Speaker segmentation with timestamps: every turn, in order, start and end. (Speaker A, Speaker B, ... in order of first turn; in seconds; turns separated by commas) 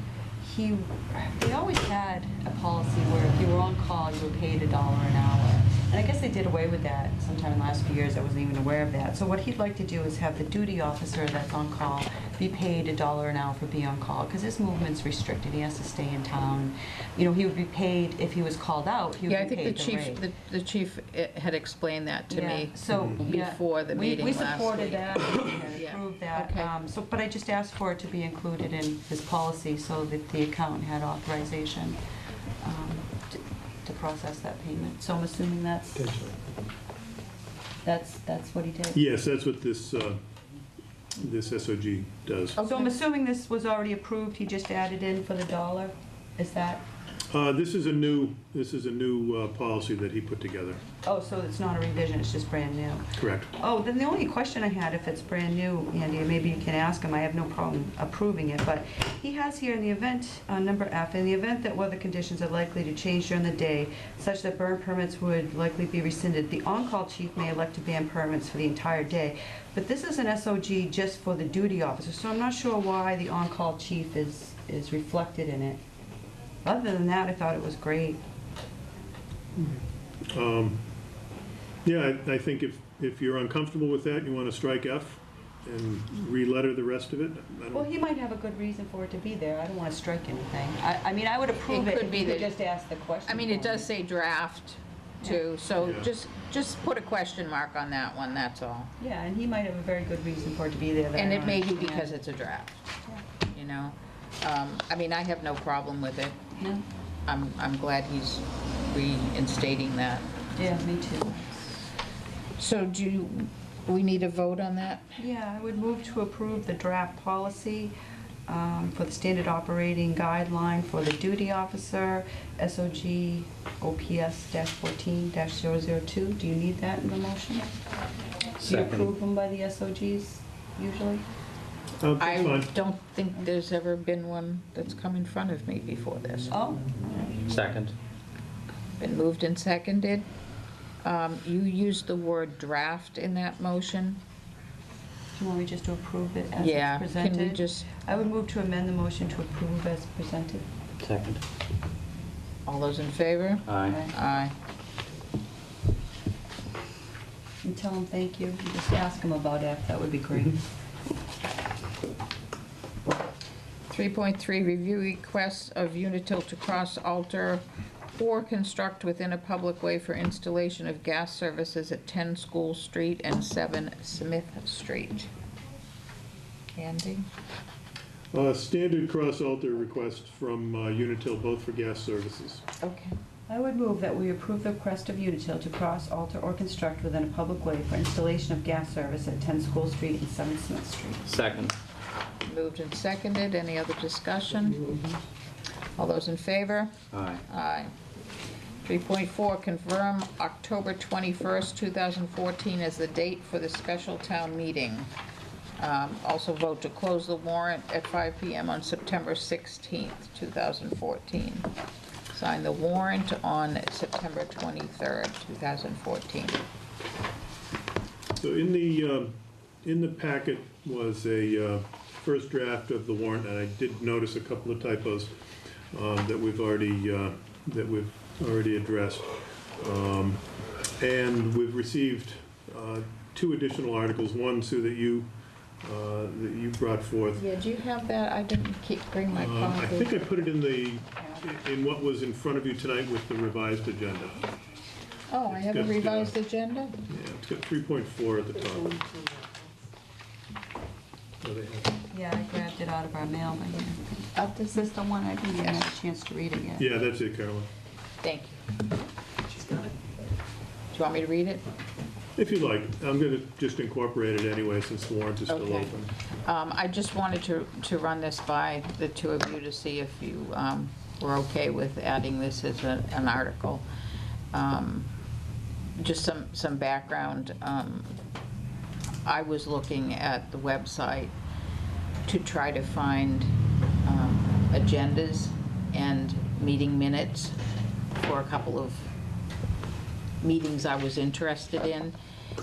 Speaker A: 0.4-20.2, Speaker B: 19.3-25.1, Speaker A: 22.3-32.0, Speaker B: 25.8-26.7, Speaker A: 32.6-36.1, Speaker C: 36.0-36.3, Speaker A: 37.8-39.0, Speaker C: 38.9-40.2, Speaker C: 41.1-42.6, Speaker B: 42.5-42.9, Speaker A: 42.6-46.8, Speaker C: 47.3-50.8, Speaker A: 51.0-75.8, Speaker C: 53.2-53.5, Speaker A: 76.6-78.2, Speaker C: 79.5-80.8, Speaker C: 81.8-87.9, Speaker A: 87.7-93.9, Speaker B: 91.7-92.5, Speaker B: 93.3-98.9, Speaker C: 95.8-96.1, Speaker A: 99.0-102.2, Speaker B: 101.1-102.8, Speaker B: 103.5-106.4, Speaker A: 106.6-106.8, Speaker B: 107.3-110.3, Speaker A: 110.5-111.8, Speaker B: 112.6-115.0, Speaker A: 115.2-117.9, Speaker A: 118.5-127.7, Speaker A: 128.6-131.2, Speaker D: 128.6-129.1, Speaker C: 132.0-132.7, Speaker B: 132.2-136.6, Speaker A: 136.5-137.3, Speaker D: 137.5-137.9, Speaker B: 139.0-140.2, Speaker B: 141.0-144.2, Speaker A: 145.3-150.7, Speaker B: 146.6-147.8, Speaker D: 151.0-151.4, Speaker B: 152.7-154.5, Speaker D: 153.7-154.0, Speaker A: 153.9-154.1, Speaker A: 157.6-160.6, Speaker B: 163.9-175.3, Speaker B: 176.7-177.3, Speaker C: 178.3-182.6, Speaker B: 182.8-183.2, Speaker A: 183.5-191.3, Speaker D: 191.2-191.7, Speaker B: 192.4-194.9, Speaker B: 196.0-196.9, Speaker D: 197.1-197.4, Speaker B: 197.5-197.9, Speaker B: 198.8-205.1, Speaker B: 205.8-211.7, Speaker B: 212.3-216.6, Speaker C: 218.4-225.3, Speaker C: 225.9-229.3, Speaker C: 229.8-230.4, Speaker C: 231.0-235.3, Speaker C: 235.8-237.4, Speaker B: 237.3-240.1, Speaker C: 239.3-244.5, Speaker B: 245.3-247.0, Speaker C: 245.4-246.3, Speaker C: 247.1-249.0, Speaker A: 248.9-249.7, Speaker C: 251.4-251.9, Speaker A: 252.1-256.9, Speaker B: 254.3-254.9, Speaker B: 255.5-255.9, Speaker C: 256.8-257.7, Speaker B: 258.2-258.6, Speaker B: 260.9-261.6, Speaker C: 262.4-266.1, Speaker B: 265.5-265.9, Speaker B: 266.4-273.8, Speaker B: 274.5-275.1, Speaker B: 276.0-278.1, Speaker B: 279.2-281.3, Speaker B: 282.2-283.5, Speaker B: 284.0-287.6, Speaker B: 288.2-289.1, Speaker B: 290.4-292.1